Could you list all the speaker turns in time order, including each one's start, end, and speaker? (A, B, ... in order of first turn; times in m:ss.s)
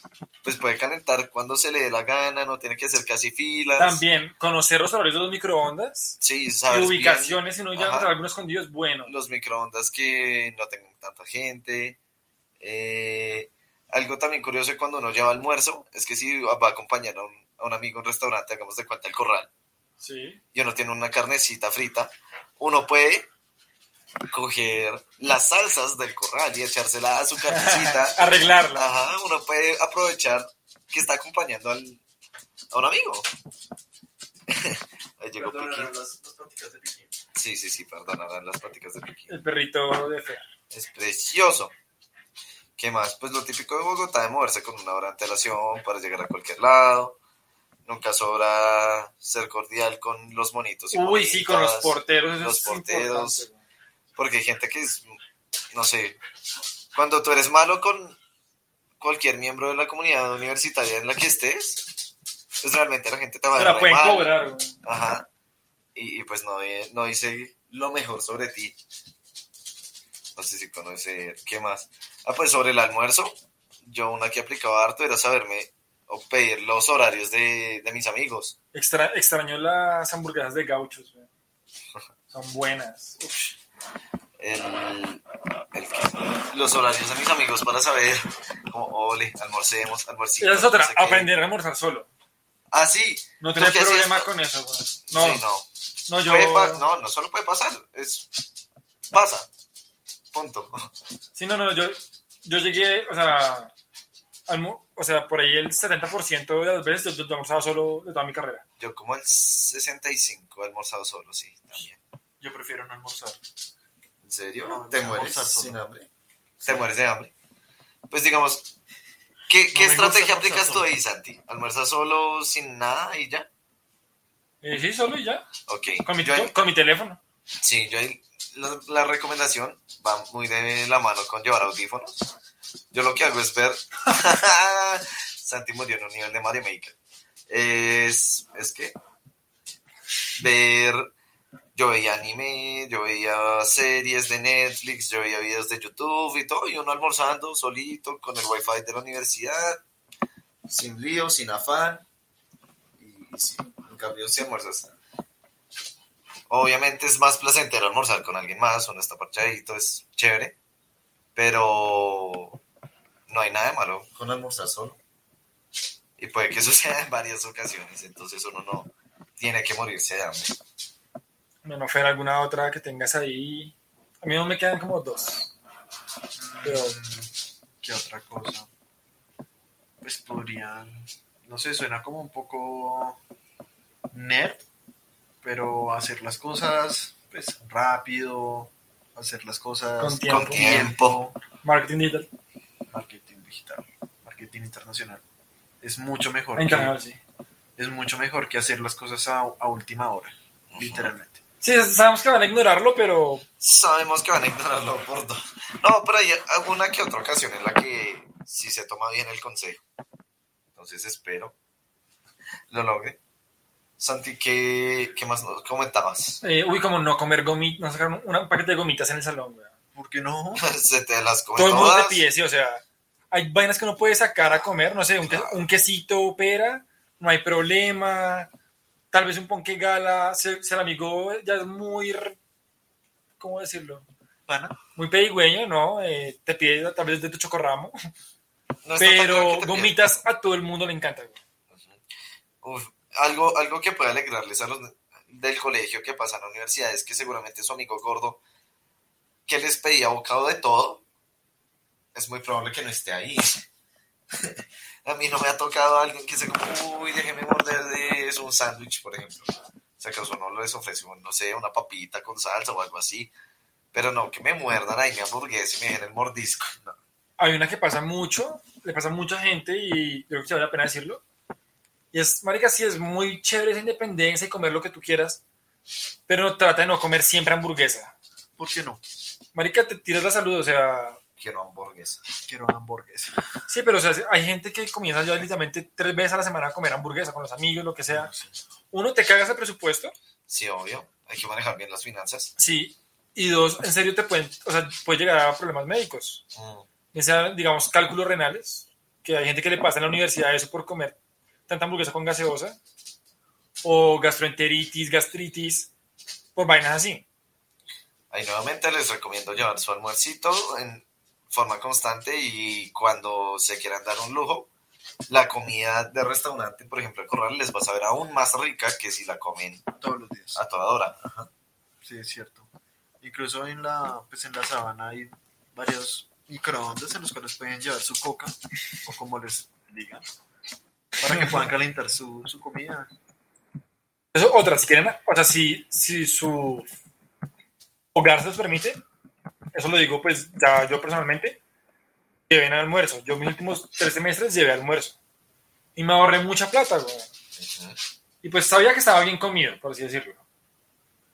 0:00.4-0:04.0 A
0:03.8-0:06.2 B
0:06.2-0:08.1 A
0:06.7-0:09.1 B
0:09.1-0:12.0 A
0:12.6-0:19.5 A
0:20.0-0:20.4 B
0:20.5-0:23.3 A
0:24.3-0:28.2 A
0:27.5-0:28.9 B
0:28.7-0:32.0 A
0:32.7-0:33.3 A
0:34.5-0:35.9 A
0:35.4-0:37.1 C
0:37.4-0:39.4 A
0:39.3-0:40.5 B
0:40.7-0:41.7 A
0:42.8-0:47.2 A
0:47.9-0:53.4 A
0:50.9-0:53.6 B
0:54.2-0:55.2 A
0:55.7-0:56.2 A
0:56.9-0:58.2 A
0:59.0-1:04.3 A
1:03.6-1:04.8 B
1:04.8-1:05.3 A
1:06.0-1:08.8 A
1:10.4-1:18.6 A
1:18.7-1:21.3 B
1:22.3-1:23.6 B
1:24.4-1:31.3 A
1:30.4-1:32.1 B
1:32.7-1:34.3 A
1:33.4-1:35.4 B
1:35.1-1:35.7 A
1:36.1-1:36.8 B
1:36.2-1:38.4 A
1:39.1-1:39.5 A
1:40.3-1:40.9 A
1:41.4-1:43.7 B
1:44.5-1:48.6 B
1:48.8-1:52.0 A
1:52.4-1:53.4 C
1:54.2-1:56.1 A
1:54.6-1:55.8 C
1:56.6-1:57.3 A
1:58.1-1:58.7 A
1:59.5-2:03.5 A
1:59.7-2:00.9 C
2:04.6-2:05.5 B
2:05.7-2:06.5 A
2:06.1-2:07.2 B
2:07.6-2:12.3 A
2:12.9-2:17.0 A
2:17.5-2:19.0 A
2:20.4-2:21.1 A
2:21.8-2:29.8 A
2:30.7-2:32.0 A
2:33.0-2:35.0 A
2:36.5-2:40.6 A
2:41.4-2:42.6 A
2:43.3-2:45.0 A
2:46.2-2:50.6 A
2:51.6-2:55.5 B
2:56.4-2:57.3 C
2:56.6-2:57.0 B
2:57.8-2:58.7 C
3:00.0-3:03.2 C
3:04.1-3:04.6 C
3:05.4-3:11.4 C
3:10.0-3:10.9 B
3:10.3-3:11.2 A
3:11.6-3:12.3 B
3:12.9-3:15.2 C
3:15.8-3:16.9 C
3:16.6-3:17.2 B
3:17.8-3:21.4 C
3:20.7-3:21.1 A
3:21.6-3:23.4 B
3:23.6-3:29.8 A
3:30.8-3:31.6 A
3:32.7-3:33.2 A
3:34.0-3:36.4 A
3:36.4-3:39.7 B
3:40.0-3:40.6 C
3:40.6-3:42.2 A
3:41.6-3:48.5 B
3:45.2-3:45.6 A
3:49.1-3:52.4 B
3:53.4-3:54.0 B
3:54.5-3:54.8 C
3:55.0-3:58.0 B
3:58.8-4:00.0 A
3:59.0-4:01.4 B
4:01.7-4:02.0 A
4:02.6-4:08.4 A
4:09.5-4:11.0 A
4:12.1-4:13.6 A
4:14.3-4:23.3 A
4:23.9-4:27.0 A
4:27.4-4:31.2 B
4:32.1-4:35.4 B
4:36.3-4:38.1 B
4:38.6-4:39.0 C
4:39.5-4:41.2 B
4:41.4-4:42.2 A
4:42.5-4:43.3 C
4:43.7-4:48.3 B
4:48.9-4:50.2 B
4:50.5-4:52.5 A
4:52.6-4:56.4 B
4:56.6-4:56.9 A
4:57.1-5:01.2 B
5:01.7-5:02.8 B
5:03.8-5:05.9 B
5:06.6-5:07.2 B
5:08.3-5:14.7 A
5:15.3-5:19.8 A
5:20.0-5:20.6 C
5:20.6-5:21.5 A
5:22.0-5:22.7 C
5:23.2-5:30.3 C
5:31.2-5:33.1 C
5:31.3-5:31.6 B
5:34.3-5:36.9 B
5:38.2-5:39.0 B
5:39.7-5:41.6 B
5:42.5-5:45.2 B
5:46.0-5:47.3 B
5:47.6-5:48.0 A
5:48.4-5:50.4 B